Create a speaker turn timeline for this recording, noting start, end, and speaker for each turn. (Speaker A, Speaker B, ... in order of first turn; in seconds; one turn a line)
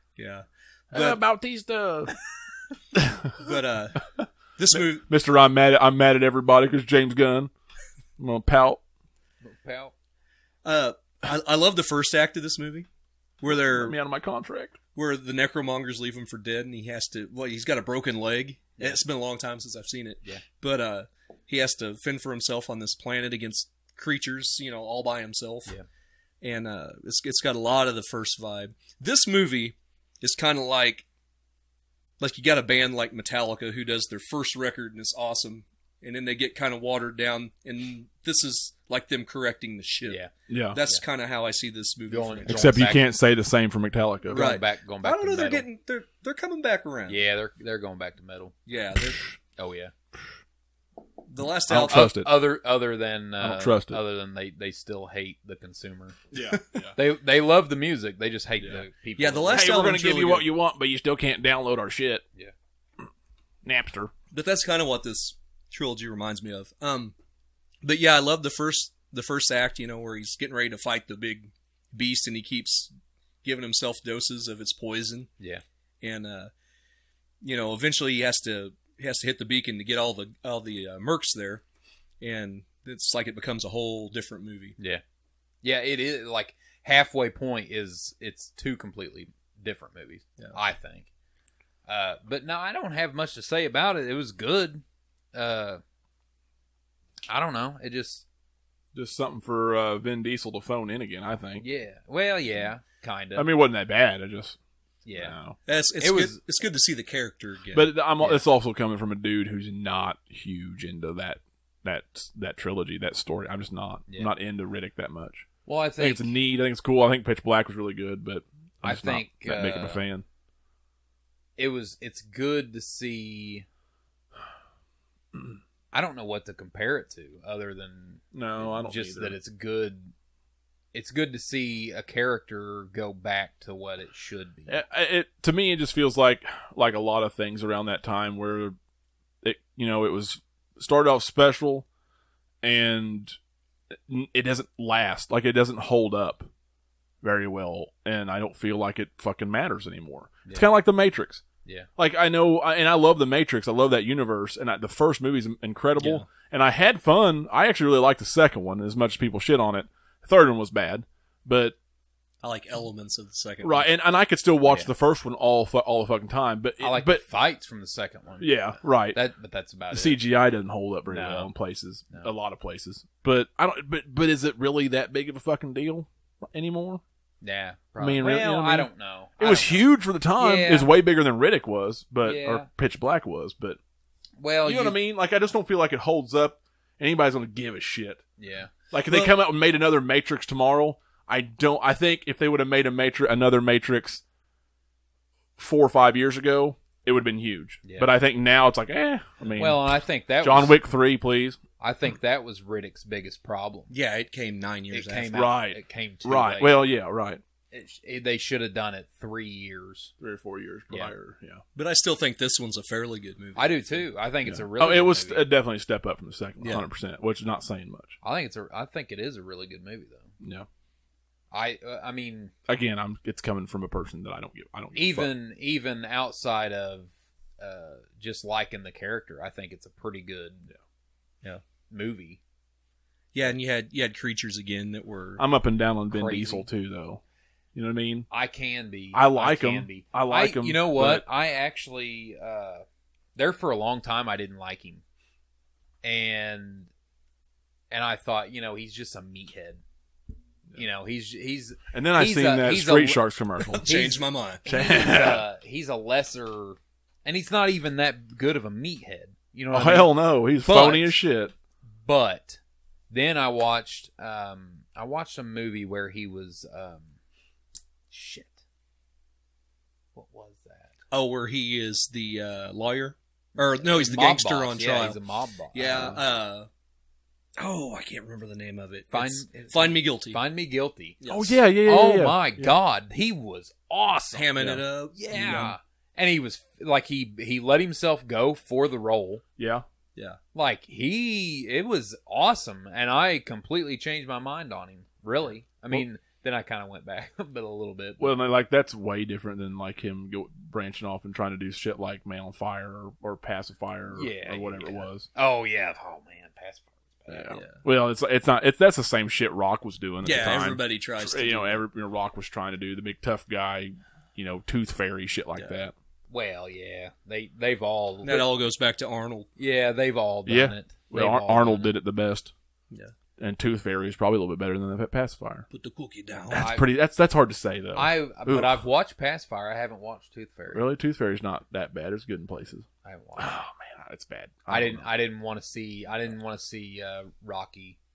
Speaker A: 0.2-1.2
Speaker B: 0.9-2.1
Speaker B: 2.9-3.4
Speaker A: 3.4-4.0
Speaker B: 4.2-7.5
Speaker A: 4.6-5.1
Speaker B: 8.2-8.8
Speaker C: 9.4-9.9
Speaker A: 10.7-12.9
Speaker A: 13.4-14.0
Speaker B: 13.7-14.8
Speaker A: 14.9-25.8
Speaker A: 26.4-31.1
Speaker A: 32.2-40.2
Speaker B: 40.5-40.8
Speaker A: 40.7-42.5
Speaker C: 42.1-43.1
Speaker B: 42.5-44.5
Speaker C: 44.3-45.7
Speaker A: 44.3-47.2
Speaker C: 47.1-48.5
Speaker A: 48.7-49.2
Speaker C: 49.6-49.9
Speaker A: 51.3-52.1
Speaker B: 51.7-52.5
Speaker C: 51.8-56.2
Speaker B: 53.4-54.0
Speaker B: 56.3-57.0
Speaker A: 56.5-56.8
Speaker C: 57.0-59.8
Speaker A: 59.2-60.5
Speaker B: 59.5-62.2
Speaker B: 63.6-64.1
Speaker A: 64.3-67.1
Speaker A: 67.8-72.9
Speaker A: 73.4-75.3
Speaker A: 76.0-76.5
Speaker A: 77.4-81.6
Speaker A: 82.2-84.8
Speaker C: 85.6-91.1
Speaker C: 91.9-94.8
Speaker C: 95.3-95.8
Speaker C: 97.3-98.2
Speaker B: 98.9-101.7
Speaker C: 101.6-103.5
Speaker B: 103.3-104.6
Speaker C: 105.0-105.4
Speaker B: 105.1-105.6
Speaker A: 105.7-107.9
Speaker C: 106.0-106.4
Speaker B: 107.7-115.5
Speaker C: 115.7-116.3
Speaker B: 116.0-120.2
Speaker C: 118.8-120.0
Speaker C: 121.6-123.7
Speaker C: 125.9-130.1
Speaker B: 128.3-129.4
Speaker C: 130.9-134.8
Speaker B: 134.7-138.8
Speaker B: 139.4-141.9
Speaker B: 142.6-143.4
Speaker B: 143.9-146.5
Speaker B: 147.2-151.4
Speaker B: 152.0-161.8
Speaker A: 156.0-156.3
Speaker A: 162.4-163.9
Speaker B: 163.6-167.2
Speaker C: 164.7-164.9
Speaker C: 166.8-168.6
Speaker B: 168.4-169.2
Speaker C: 169.1-170.2
Speaker B: 169.9-177.0
Speaker C: 171.1-171.5
Speaker C: 177.4-179.8
Speaker B: 178.0-183.8
Speaker C: 180.4-180.9
Speaker C: 182.2-182.7
Speaker C: 184.4-185.0
Speaker B: 184.7-188.2
Speaker C: 188.4-189.4
Speaker B: 188.9-194.2
Speaker B: 195.6-201.6
Speaker C: 197.8-198.1
Speaker C: 199.6-200.8
Speaker C: 201.8-203.9
Speaker A: 203.9-205.4
Speaker C: 204.9-206.8
Speaker B: 205.3-207.4
Speaker C: 207.7-210.1
Speaker B: 210.2-211.6
Speaker A: 211.8-214.0
Speaker C: 213.6-215.5
Speaker B: 214.5-218.2
Speaker A: 216.6-216.8
Speaker C: 218.2-220.3
Speaker B: 220.4-220.7
Speaker C: 221.5-222.5
Speaker B: 222.7-225.3
Speaker C: 224.9-230.7
Speaker C: 231.9-232.4
Speaker A: 233.3-235.4
Speaker B: 235.4-237.2
Speaker C: 236.1-236.7
Speaker B: 237.8-238.3
Speaker C: 238.3-242.8
Speaker B: 239.1-241.2
Speaker C: 243.4-245.0
Speaker C: 246.0-246.9
Speaker C: 247.9-249.8
Speaker C: 250.8-253.2
Speaker B: 251.9-253.9
Speaker A: 253.7-254.6
Speaker C: 253.8-261.2
Speaker B: 254.7-255.4
Speaker B: 259.7-261.5
Speaker C: 262.1-262.6
Speaker C: 263.1-267.2
Speaker C: 268.1-268.6
Speaker C: 270.1-270.9
Speaker A: 271.1-275.2
Speaker C: 273.6-276.2
Speaker A: 275.7-276.7
Speaker A: 277.6-280.4
Speaker C: 279.1-281.2
Speaker A: 281.2-281.6
Speaker B: 281.3-282.7
Speaker C: 281.8-284.5
Speaker A: 284.3-285.7
Speaker C: 285.1-289.4
Speaker B: 285.4-285.7
Speaker B: 289.6-289.9
Speaker C: 290.6-298.3
Speaker B: 298.2-305.3
Speaker C: 304.1-307.7
Speaker B: 307.3-315.9
Speaker A: 310.2-311.8
Speaker A: 315.6-315.9
Speaker C: 316.3-318.5
Speaker A: 318.2-319.5
Speaker C: 319.6-321.9
Speaker B: 320.5-322.5
Speaker B: 323.4-325.7
Speaker A: 325.7-326.7
Speaker B: 326.5-328.8
Speaker C: 326.5-326.9
Speaker C: 327.9-330.9
Speaker B: 330.7-332.9
Speaker C: 333.0-333.6
Speaker B: 333.4-335.1
Speaker C: 334.7-338.0